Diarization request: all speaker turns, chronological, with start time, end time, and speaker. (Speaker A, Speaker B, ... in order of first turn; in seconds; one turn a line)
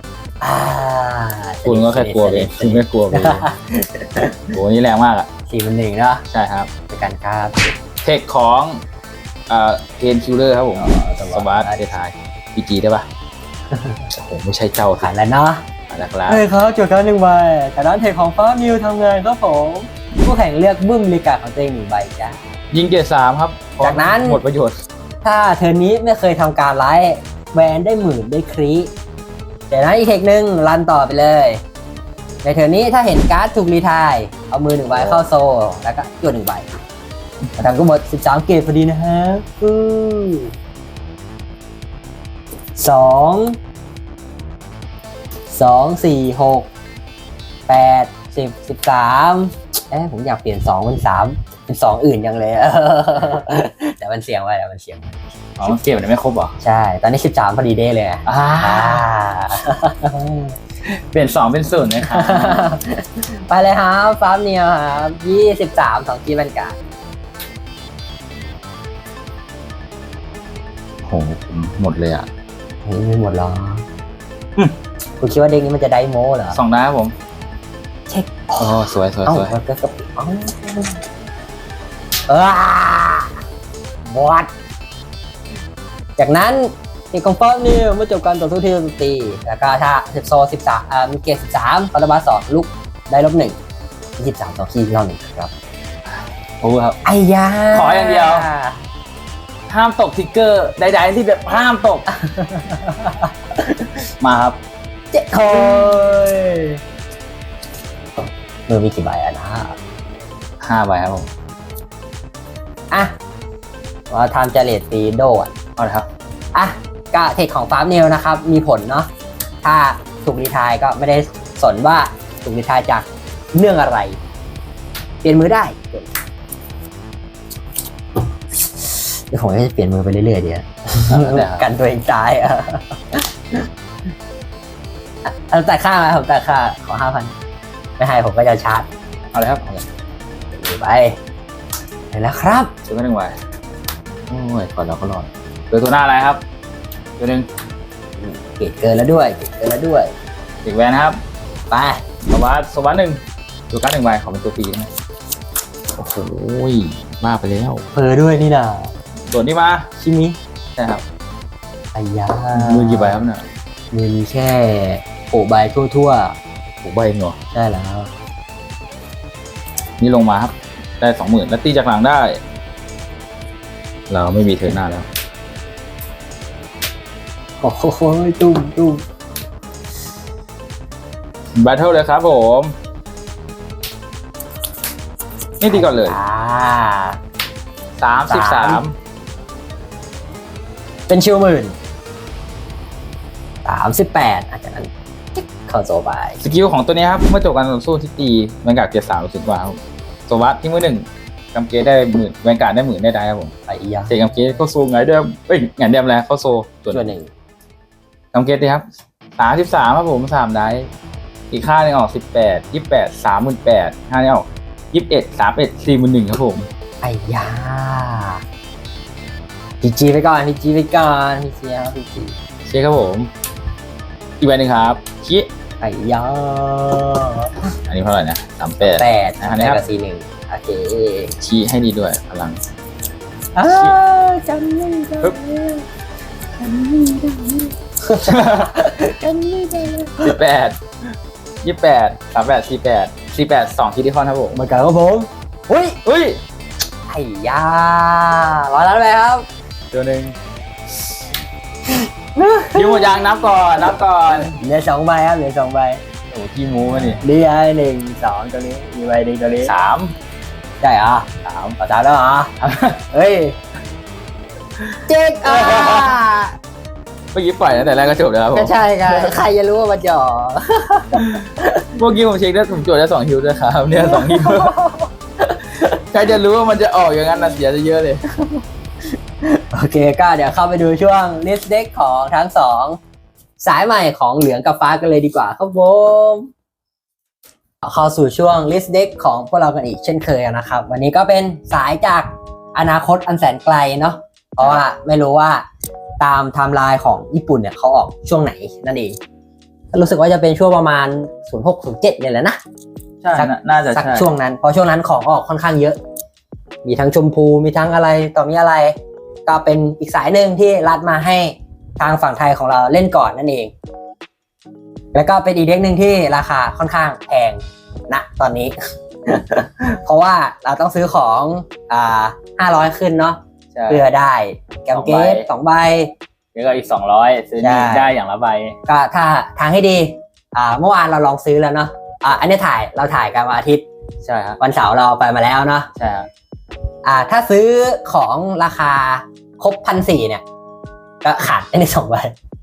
Speaker A: 0.4-4.5
Speaker B: 1.6-3.5
Speaker B: 4.5-5.3
Speaker A: 5.5-6.2
Speaker B: 6.3-6.7
Speaker A: 6.9-7.8
Speaker B: 8.0-8.8
Speaker B: 9.5-13.1
Speaker A: 10.8-11.9
Speaker A: 13.7-14.0
Speaker B: 14.1-15.1
Speaker A: 15.0-15.6
Speaker B: 15.9-16.4
Speaker A: 16.3-22.4
Speaker B: 22.7-24.8
Speaker A: 23.8-24.4
Speaker A: 25.2-28.9
Speaker A: 29.7-31.6
Speaker A: 32.4-36.7
Speaker B: 34.9-35.2
Speaker A: 37.6-40.5
Speaker A: 42.8-43.6
Speaker A: 45.5-46.7
Speaker A: 47.7-55.8
Speaker B: 55.6-56.6
Speaker A: 56.6-60.6
Speaker B: 58.3-59.1
Speaker B: 60.9-62.7
Speaker A: 62.1-66.8
Speaker B: 71.0-72.3
Speaker A: 72.9-73.8
Speaker A: 75.2-76.6
Speaker B: 76.5-77.1
Speaker A: 78.1-81.0
Speaker B: 78.6-79.6
Speaker A: 82.3-83.4
Speaker A: 84.0-84.5
Speaker A: 86.2-93.6
Speaker A: 94.2-95.5
Speaker B: 96.6-97.0
Speaker A: 97.0-98.8
Speaker B: 97.7-98.5
Speaker B: 99.7-102.1
Speaker A: 102.1-103.3
Speaker B: 104.2-104.6
Speaker A: 105.1-106.8
Speaker A: 108.7-109.8
Speaker B: 110.6-111.3
Speaker A: 114.1-115.5
Speaker B: 115.8-116.1
Speaker A: 116.5-119.1
Speaker A: 119.6-124.2
Speaker A: 125.2-126.1
Speaker A: 128.8-133.6
Speaker B: 131.1-131.7
Speaker A: 135.2-137.3
Speaker A: 138.0-138.9
Speaker B: 139.3-139.9
Speaker A: 140.5-141.2
Speaker A: 142.1-142.7
Speaker B: 142.9-143.4
Speaker B: 144.3-146.4
Speaker B: 147.2-147.5
Speaker A: 148.2-150.1
Speaker B: 150.7-151.2
Speaker A: 151.7-152.0
Speaker B: 152.3-154.9
Speaker B: 155.9-157.8
Speaker A: 157.9-158.9
Speaker B: 159.3-159.9
Speaker A: 160.0-160.4
Speaker B: 160.8-161.0
Speaker A: 161.9-163.2
Speaker B: 162.5-163.5
Speaker A: 163.9-166.4
Speaker B: 166.8-167.4
Speaker A: 167.5-168.1
Speaker B: 170.0-172.4
Speaker B: 174.1-175.1
Speaker A: 177.6-179.0
Speaker B: 181.6-182.7
Speaker B: 185.6-186.2
Speaker A: 185.7-187.2
Speaker B: 188.0-188.9
Speaker A: 188.2-188.8
Speaker A: 191.1-191.8
Speaker A: 193.7-196.4
Speaker B: 196.4-199.8
Speaker B: 200.3-203.5
Speaker A: 203.7-204.6
Speaker B: 204.1-207.1
Speaker A: 206.9-207.3
Speaker B: 208.3-210.9
Speaker B: 211.5-216.7
Speaker A: 217.0-218.4
Speaker A: 219.8-222.4
Speaker B: 222.7-223.3
Speaker B: 224.4-225.5
Speaker A: 225.8-227.7
Speaker B: 227.9-229.8
Speaker A: 228.8-231.3
Speaker B: 231.4-232.6
Speaker A: 233.6-235.9
Speaker B: 233.6-234.0
Speaker A: 236.6-240.4
Speaker B: 238.2-238.8
Speaker B: 240.2-240.8
Speaker B: 241.6-244.6
Speaker A: 244.5-246.0
Speaker B: 246.0-246.4
Speaker A: 247.1-249.5
Speaker B: 249.9-250.4
Speaker A: 252.4-253.2
Speaker B: 252.7-254.5
Speaker A: 254.4-256.0
Speaker B: 256.3-257.2
Speaker A: 257.2-259.8
Speaker B: 259.6-260.1
Speaker A: 260.8-261.3
Speaker B: 261.4-261.8
Speaker A: 261.8-262.5
Speaker B: 262.6-263.0
Speaker A: 263.1-263.6
Speaker B: 264.8-266.2
Speaker A: 265.1-266.6
Speaker B: 267.3-269.4
Speaker A: 268.5-271.9
Speaker B: 271.1-274.8
Speaker A: 274.0-275.9
Speaker B: 275.9-278.4
Speaker A: 279.6-283.0
Speaker A: 283.6-286.5
Speaker A: 287.8-295.6
Speaker B: 294.6-294.8
Speaker A: 296.2-299.2
Speaker A: 299.9-302.6
Speaker B: 303.2-304.3
Speaker A: 303.4-306.0
Speaker A: 306.8-313.7
Speaker A: 315.1-318.8
Speaker A: 319.3-323.4
Speaker B: 323.7-324.0
Speaker A: 323.9-326.1
Speaker B: 324.9-325.5
Speaker B: 326.6-328.8
Speaker A: 327.6-328.1
Speaker A: 328.9-333.9
Speaker B: 334.2-334.6
Speaker A: 334.6-335.9
Speaker B: 336.0-336.3
Speaker A: 337.1-340.4
Speaker A: 341.2-342.4